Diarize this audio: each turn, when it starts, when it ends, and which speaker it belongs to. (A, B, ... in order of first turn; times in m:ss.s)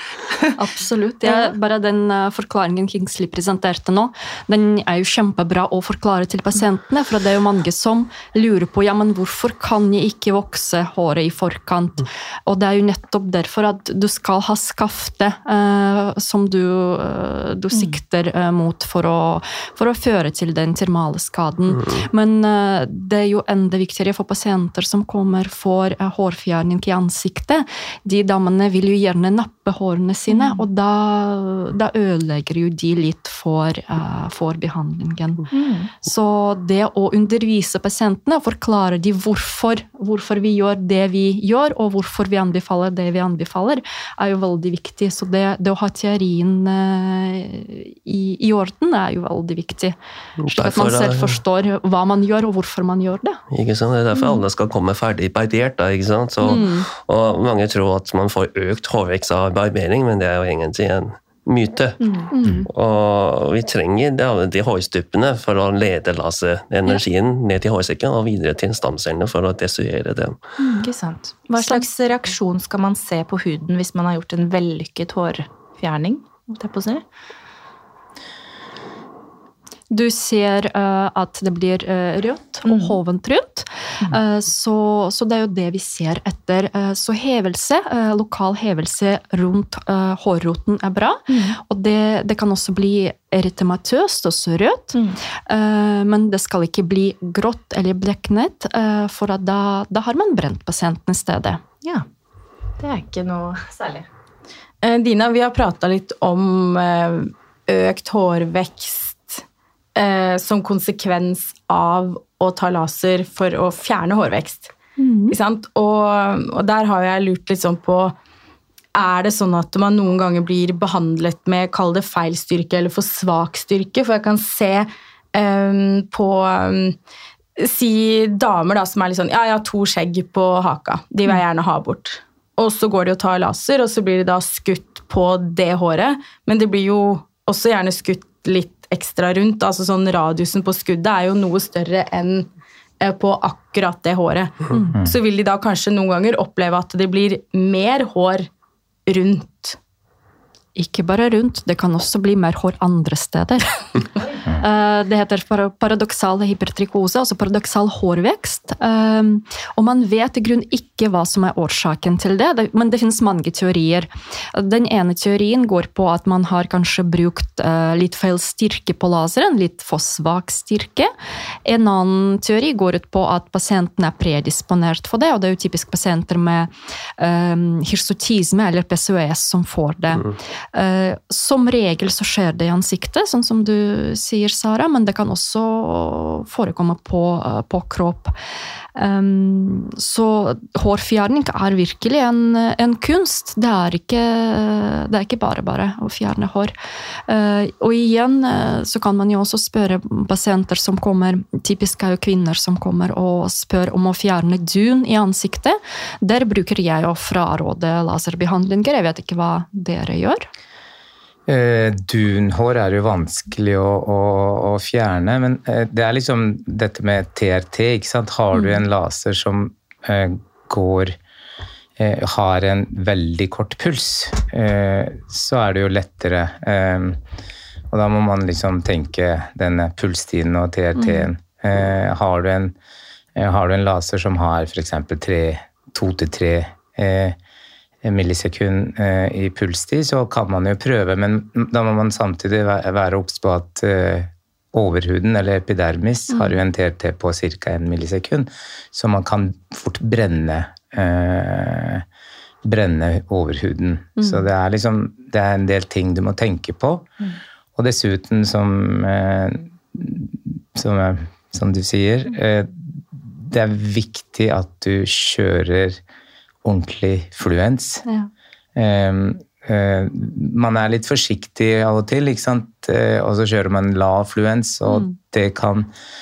0:00.6-0:35.5 A
0:01.2-0:01.5 B
0:17.7-0:18.0 B
0:21.7-0:22.0 C
0:30.3-0:30.6 B
0:35.5-0:35.9 B
0:36.0-0:53.4 A
0:50.4-0:51.4 C
0:53.5-1:02.0 C
0:56.4-0:56.9 A
1:02.0-1:02.3 B
1:02.3-1:02.7 A
1:02.7-1:10.4 C
1:10.6-1:17.0 B
1:11.6-1:11.8 A
1:19.9-1:35.0 A
1:22.7-1:23.0 B
1:31.3-1:31.6 B
1:35.5-1:41.6 A
1:42.8-1:44.1 B
1:44.8-1:49.4 D
1:50.0-1:54.7 D
1:55.0-1:55.4 A
1:55.3-1:58.2 D
1:58.9-2:07.0 D
2:07.6-2:28.5 D
2:29.1-2:29.8 D
2:30.8-2:33.9 A
2:34.6-2:51.1 A
2:51.6-3:08.4 A
3:09.0-3:16.7 A
3:17.3-3:30.5 A
3:31.5-3:41.2 E
3:38.5-3:38.8 A
3:42.0-3:47.2 E
3:47.9-3:52.8 E
3:51.0-3:51.3 A
3:53.4-3:57.4 E
3:58.0-4:12.0 E
4:06.3-4:06.6 A
4:12.6-4:17.1 E
4:14.2-4:14.5 A
4:17.8-4:26.0 E
4:26.6-4:28.0 E
4:28.8-4:35.9 E
4:34.9-4:35.2 A